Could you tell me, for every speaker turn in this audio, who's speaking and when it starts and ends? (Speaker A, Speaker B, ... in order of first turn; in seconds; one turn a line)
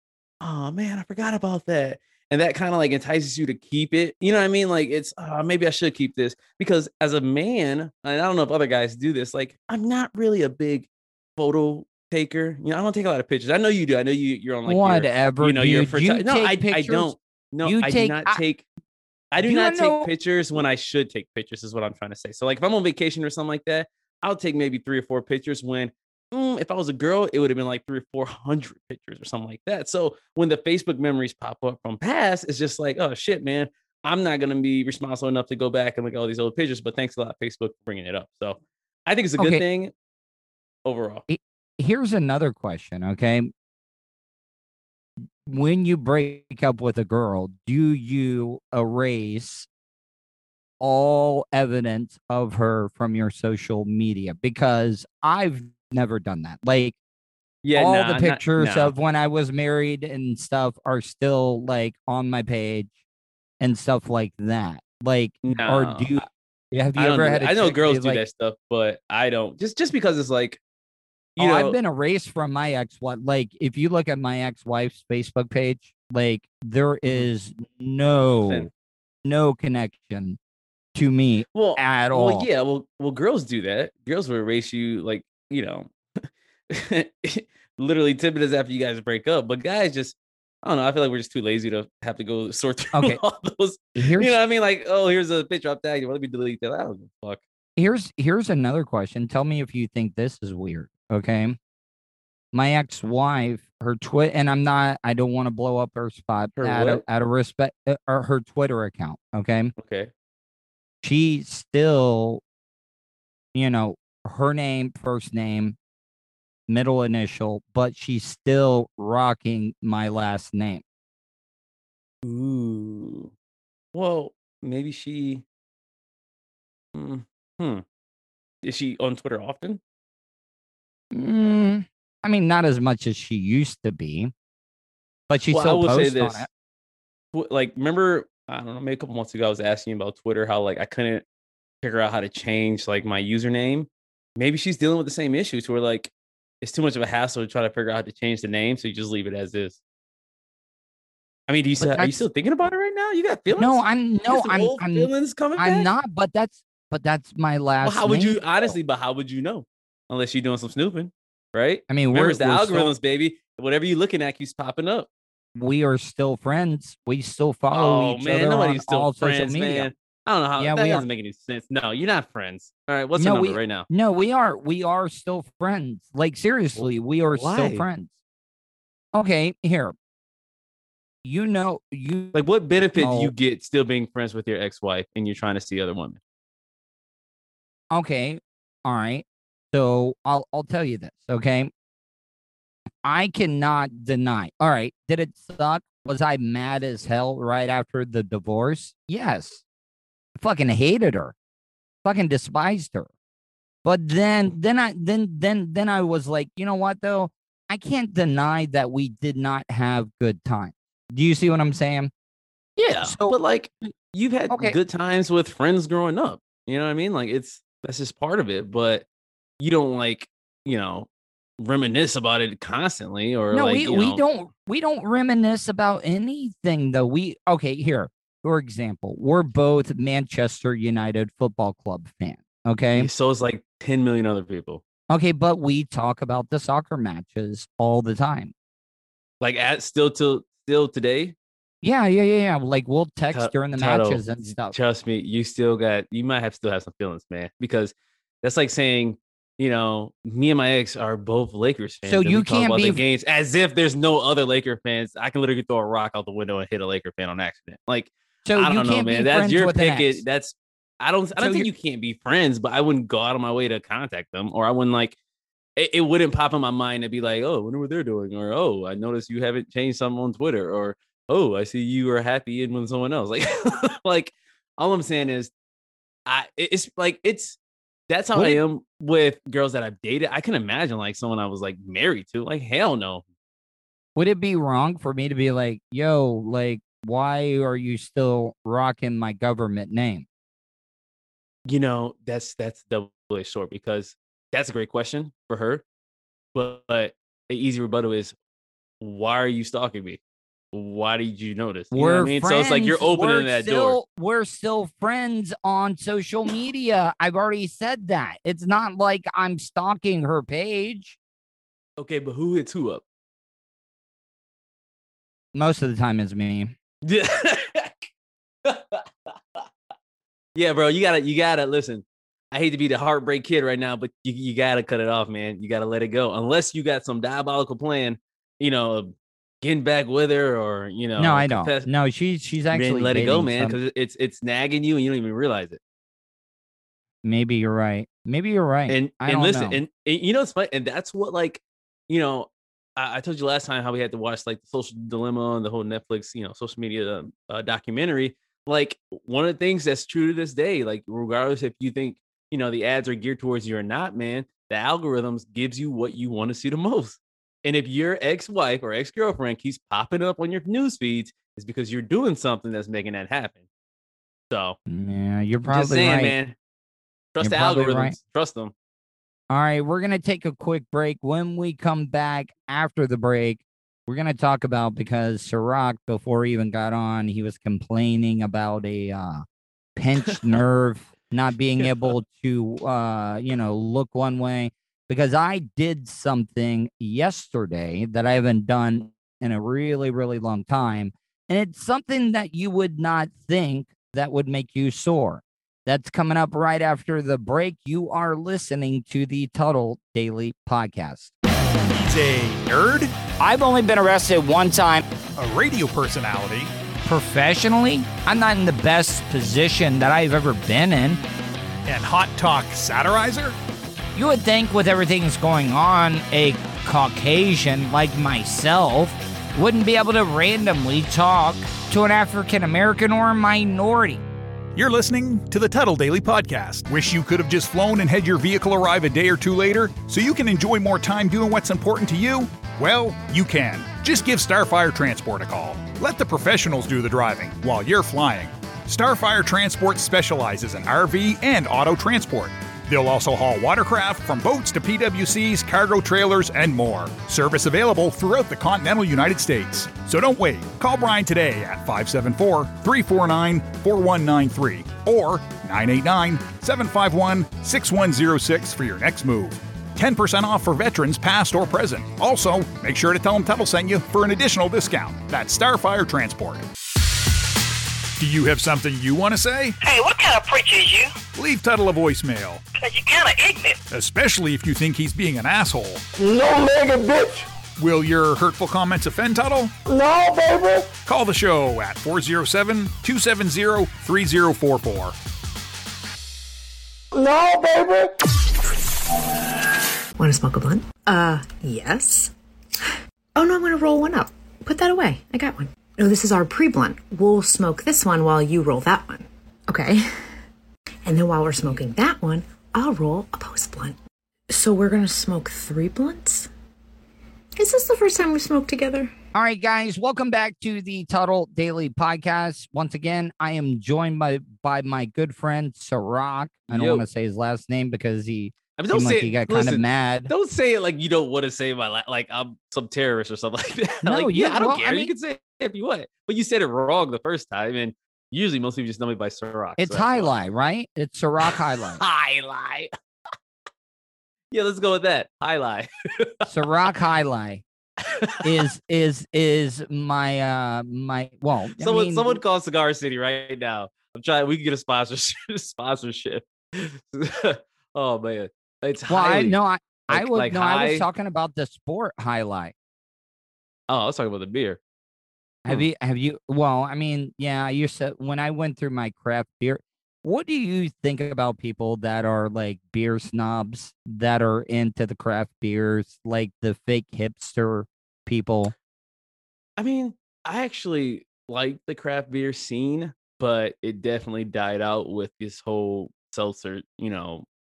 Speaker A: 0.4-18.6
Speaker B: 14.7-18.4
Speaker A: 19.3-39.9
Speaker B: 19.4-20.1
Speaker B: 39.4-39.6
Speaker A: 40.9-41.2
Speaker B: 41.3-43.5
Speaker B: 45.4-49.7
Speaker B: 50.8-57.0
Speaker A: 57.6-58.9
Speaker B: 57.7-62.9
Speaker B: 63.6-68.2
Speaker A: 65.4-66.1
Speaker A: 67.0-70.6
Speaker A: 71.4-71.8
Speaker B: 71.4-78.7
Speaker B: 79.2-80.4
Speaker B: 81.0-82.5
Speaker A: 81.5-97.4
Speaker B: 92.9-93.2
Speaker B: 94.0-94.4
Speaker B: 97.8-101.6
Speaker B: 102.5-109.7
Speaker A: 106.6-107.0
Speaker A: 109.8-110.1
Speaker B: 111.0-112.4
Speaker B: 113.5-115.8
Speaker B: 116.7-120.8
Speaker A: 122.2-123.3
Speaker A: 123.9-125.5
Speaker A: 127.0-127.8
Speaker A: 128.6-129.8
Speaker B: 131.1-134.3
Speaker B: 135.3-136.5
Speaker A: 135.5-136.5
Speaker A: 137.3-141.2
Speaker A: 141.8-146.1
Speaker A: 146.6-149.8
Speaker A: 151.5-155.9
Speaker B: 151.8-152.2
Speaker B: 153.6-158.8
Speaker A: 157.8-165.1
Speaker B: 161.9-162.9
Speaker B: 165.6-169.9
Speaker A: 167.7-173.9
Speaker B: 170.6-171.1
Speaker B: 173.2-178.1
Speaker A: 176.8-177.9
Speaker B: 179.1-179.9
Speaker B: 181.2-182.4
Speaker A: 182.3-186.2
Speaker B: 183.0-183.3
Speaker B: 187.9-191.7
Speaker B: 193.0-199.6
Speaker B: 200.4-201.3
Speaker B: 202.0-203.1
Speaker B: 203.8-212.1
Speaker A: 212.8-219.1
Speaker B: 213.0-213.3
Speaker B: 214.5-214.8
Speaker A: 219.6-221.1
Speaker A: 221.6-224.2
Speaker B: 223.5-233.1
Speaker A: 232.9-234.8
Speaker B: 235.1-238.5
Speaker A: 239.4-241.3
Speaker B: 241.8-244.8
Speaker A: 243.3-265.2
Speaker B: 252.1-253.0
Speaker B: 258.5-260.2
Speaker B: 261.4-261.7
Speaker A: 265.8-275.5
Speaker A: 276.3-277.6
Speaker A: 278.1-283.2
Speaker B: 278.4-278.6
Speaker B: 284.2-290.3
Speaker A: 291.7-295.8
Speaker A: 296.5-298.4
Speaker A: 299.0-300.2
Speaker A: 300.7-304.0
Speaker B: 301.9-311.2
Speaker A: 312.0-313.0
Speaker B: 315.5-316.8
Speaker A: 317.1-318.1
Speaker A: 318.6-319.7
Speaker A: 320.6-331.9
Speaker B: 331.2-333.8
Speaker A: 332.7-335.8
Speaker B: 337.2-339.8
Speaker A: 338.9-363.6
Speaker A: 364.5-364.8
Speaker B: 364.9-366.4
Speaker A: 365.7-366.6
Speaker A: 367.3-368.7
Speaker B: 367.4-368.2
Speaker B: 369.5-379.4
Speaker B: 380.0-401.3
Speaker A: 380.2-380.6
Speaker A: 381.8-382.1
Speaker C: 401.9-403.1
Speaker B: 403.4-405.0
Speaker C: 405.4-406.7
Speaker B: 407.1-411.2
Speaker C: 411.9-413.6
Speaker B: 414.2-424.2
Speaker C: 424.8-466.7
Speaker C: 468.2-469.8
Speaker D: 469.8-471.1
Speaker C: 471.4-472.6
Speaker D: 472.8-473.8
Speaker C: 473.9-476.0
Speaker E: 476.2-477.5
Speaker C: 477.8-479.7
Speaker E: 479.9-480.9
Speaker C: 481.1-485.1
Speaker E: 487.1-488.1
Speaker F: 490.2-492.3
Speaker F: 493.4-500.3
Speaker F: 501.1-504.0
Speaker F: 504.5-506.5
Speaker F: 507.6-509.1
Speaker B: 509.3-520.3
Speaker A: 516.7-517.0
Speaker A: 518.8-530.3
Speaker B: 524.0-525.1
Speaker B: 529.8-532.0
Speaker A: 531.5-532.9
Speaker A: 534.5-536.5
Speaker B: 536.5-537.6
Speaker B: 538.4-542.4
Speaker A: 541.8-549.6
Speaker B: 549.1-552.7
Speaker A: 550.1-551.1
Speaker A: 553.9-554.8
Speaker B: 555.6-568.7
Speaker A: 569.8-577.5